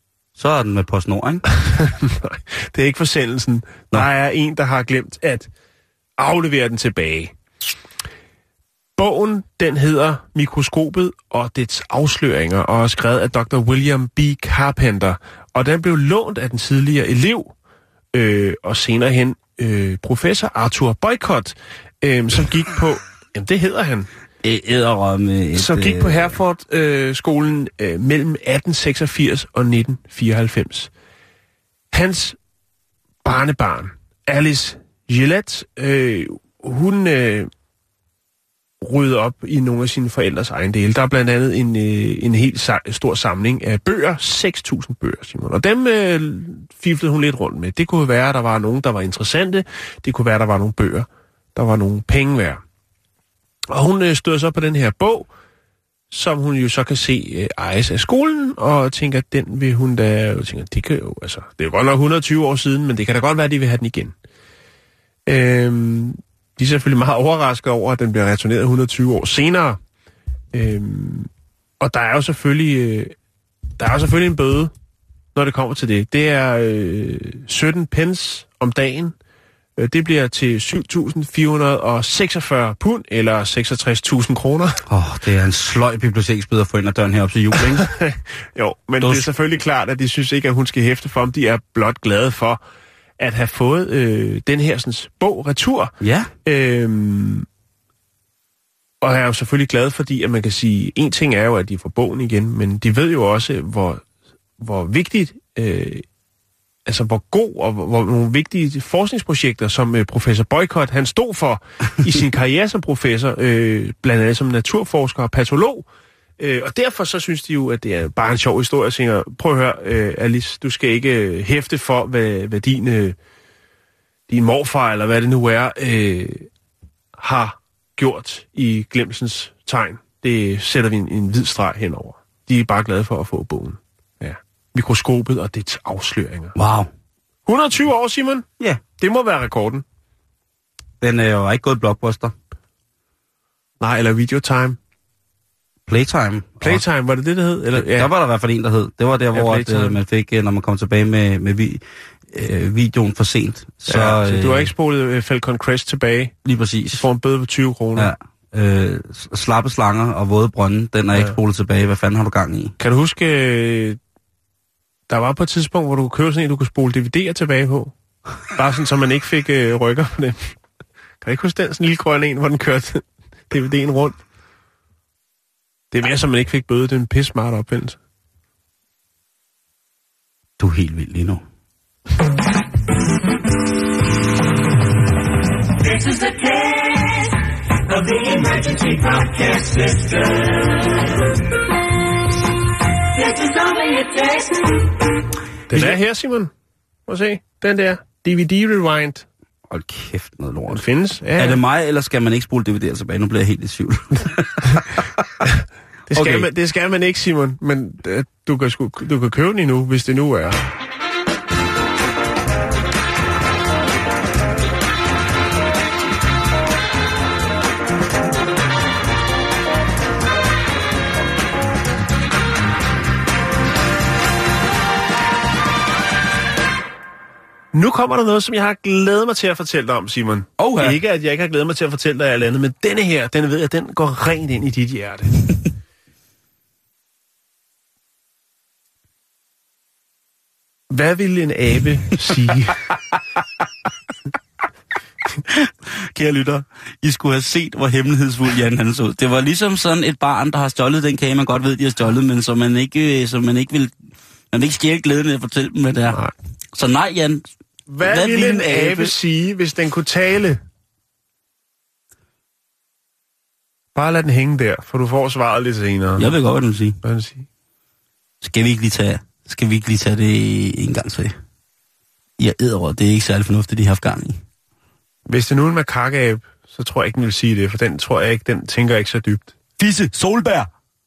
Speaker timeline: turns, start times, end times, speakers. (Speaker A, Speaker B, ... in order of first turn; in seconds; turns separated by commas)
Speaker A: 0.4-1.5, Speaker B: 1.7-5.5, Speaker B: 6.2-7.3, Speaker B: 9.0-17.5, Speaker B: 18.1-24.1, Speaker A: 24.4-26.3, Speaker B: 25.6-30.9, Speaker B: 31.9-32.4, Speaker B: 33.2-37.5, Speaker B: 38.8-52.6, Speaker B: 53.7-55.3, Speaker B: 56.1-64.2, Speaker B: 65.3-69.8, Speaker B: 70.5-73.2, Speaker B: 73.8-74.7, Speaker B: 75.3-79.2, Speaker B: 79.8-84.8, Speaker A: 84.9-87.9, Speaker B: 87.6-92.6, Speaker A: 89.0-89.3, Speaker B: 93.2-95.9, Speaker A: 96.0-96.3, Speaker B: 96.5-97.5, Speaker B: 99.0-104.0, Speaker B: 104.6-106.0, Speaker B: 106.9-115.9, Speaker B: 116.4-123.2, Speaker B: 124.3-126.5, Speaker B: 127.2-136.5, Speaker A: 136.6-136.9, Speaker B: 137.5-139.8, Speaker A: 141.0-142.3, Speaker B: 143.8-144.8, Speaker A: 145.9-146.8, Speaker B: 146.6-148.1, Speaker A: 147.7-154.7, Speaker B: 149.3-150.0, Speaker B: 153.9-156.3, Speaker A: 156.4-157.0, Speaker B: 157.0-158.1, Speaker A: 158.0-162.8, Speaker B: 162.8-164.0, Speaker B: 165.1-167.9, Speaker B: 168.5-170.6, Speaker B: 171.2-174.2, Speaker B: 175.9-178.0, Speaker A: 180.6-181.4, Speaker C: 185.8-191.0, Speaker C: 193.1-194.8, Speaker B: 195.7-196.5, Speaker B: 197.1-199.3, Speaker A: 199.7-205.1, Speaker B: 200.7-201.6, Speaker B: 206.1-210.7, Speaker A: 206.1-206.5, Speaker B: 227.7-235.4, Speaker A: 230.6-231.0, Speaker B: 240.9-242.8, Speaker A: 245.5-253.9, Speaker A: 254.5-256.2, Speaker A: 256.7-257.5, Speaker B: 257.9-260.6, Speaker A: 258.0-259.1, Speaker B: 263.9-266.3, Speaker A: 266.2-267.0, Speaker B: 267.0-267.5, Speaker A: 268.4-271.3, Speaker A: 272.4-274.4, Speaker B: 275.3-279.5, Speaker A: 279.8-280.7